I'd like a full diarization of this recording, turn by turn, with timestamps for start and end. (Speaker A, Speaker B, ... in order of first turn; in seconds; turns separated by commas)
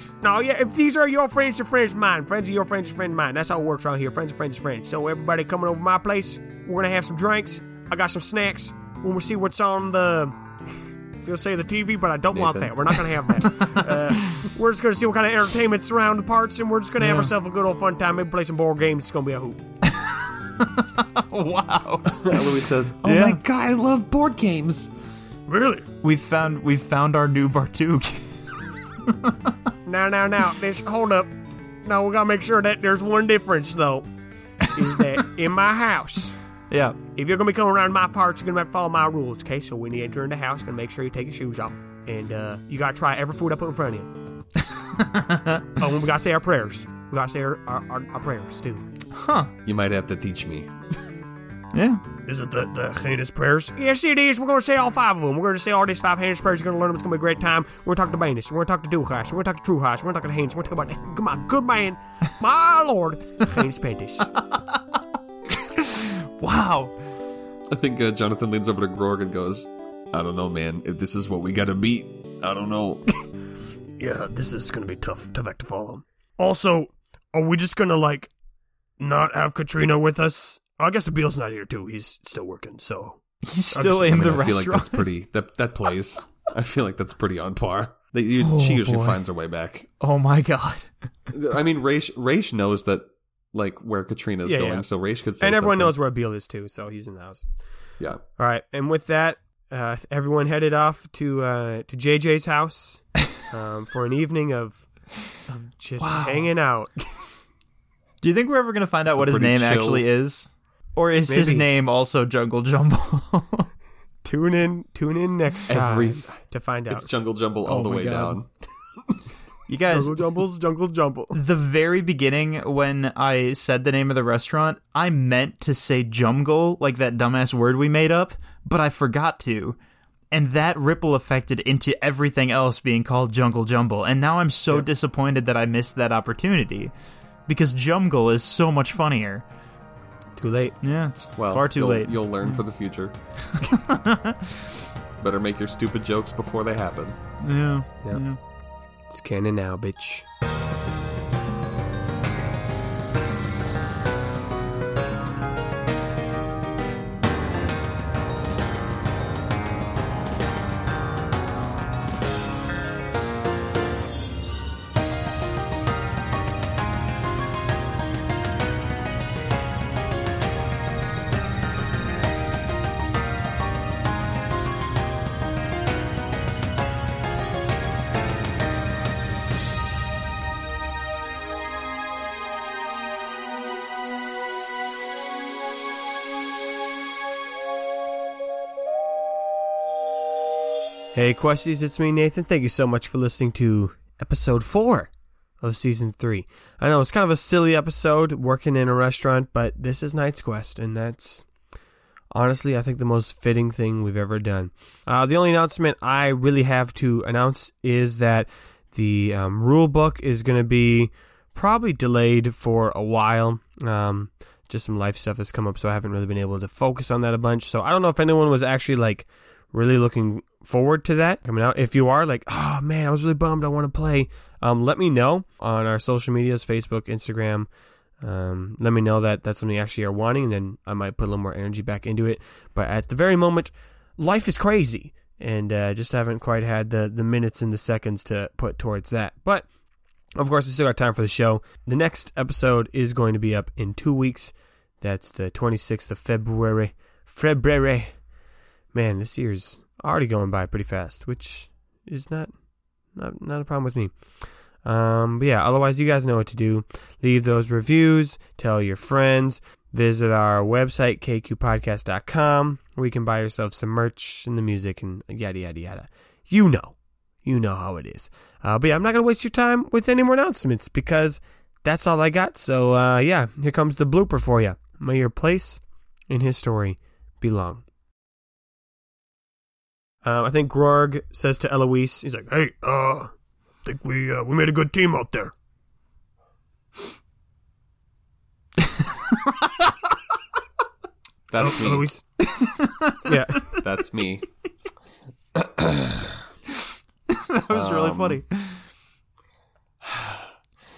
Speaker A: 0.2-10.4, Speaker A: 11.2-19.6, Speaker B: 12.3-13.0, Speaker C: 13.4-14.4, Speaker C: 17.0-17.3, Speaker C: 19.8-23.4, Speaker B: 22.1-24.9, Speaker A: 25.5-25.9, Speaker C: 26.0-29.5, Speaker A: 29.8-34.0, Speaker A: 34.6-36.4, Speaker C: 36.7-37.0, Speaker A: 37.1-44.1, Speaker C: 44.9-45.6, Speaker A: 45.7-48.9, Speaker C: 49.1-49.5, Speaker B: 49.6-50.7, Speaker C: 51.7-52.0, Speaker A: 52.2-64.3, Speaker C: 64.3-64.8, Speaker C: 65.5-66.9, Speaker B: 67.7-73.0, Speaker A: 74.0-78.3, Speaker A: 79.0-83.2, Speaker C: 83.4-85.1, Speaker A: 83.7-84.3, Speaker B: 84.0-89.9, Speaker C: 88.4-89.2, Speaker C: 90.0-90.9, Speaker B: 91.3-96.0, Speaker A: 94.4-94.8, Speaker A: 95.4-97.4, Speaker A: 98.4-104.8, Speaker A: 105.4-107.1, Speaker C: 106.0-106.5, Speaker C: 108.2-113.7, Speaker B: 109.1-110.0, Speaker A: 111.3-111.7, Speaker A: 114.2-117.1, Speaker B: 115.7-116.4, Speaker B: 116.9-118.5, Speaker C: 117.7-118.4, Speaker C: 119.7-120.2, Speaker A: 119.9-121.4, Speaker C: 121.3-129.8, Speaker C: 130.3-136.9, Speaker C: 137.5-139.4, Speaker A: 140.4-140.8, Speaker C: 140.8-142.6, Speaker B: 141.3-143.1, Speaker C: 143.5-144.6, Speaker B: 145.2-147.2, Speaker C: 147.4-148.4, Speaker A: 149.1-150.2, Speaker A: 191.1-195.1, Speaker A: 195.6-201.4, Speaker A: 202.3-227.7, Speaker A: 228.2-239.7, Speaker A: 240.4-248.1, Speaker A: 248.9-252.5, Speaker A: 253.1-254.1, Speaker A: 254.8-277.8, Speaker A: 280.2-283.3, Speaker A: 283.8-285.5, Speaker C: 288.8-289.8, Speaker B: 291.5-292.1, Speaker A: 291.6-292.2, Speaker C: 292.4-293.4, Speaker A: 293.2-293.7, Speaker B: 293.6-294.5, Speaker B: 295.5-296.5, Speaker C: 297.3-298.9, Speaker B: 297.7-298.4, Speaker B: 300.0-300.5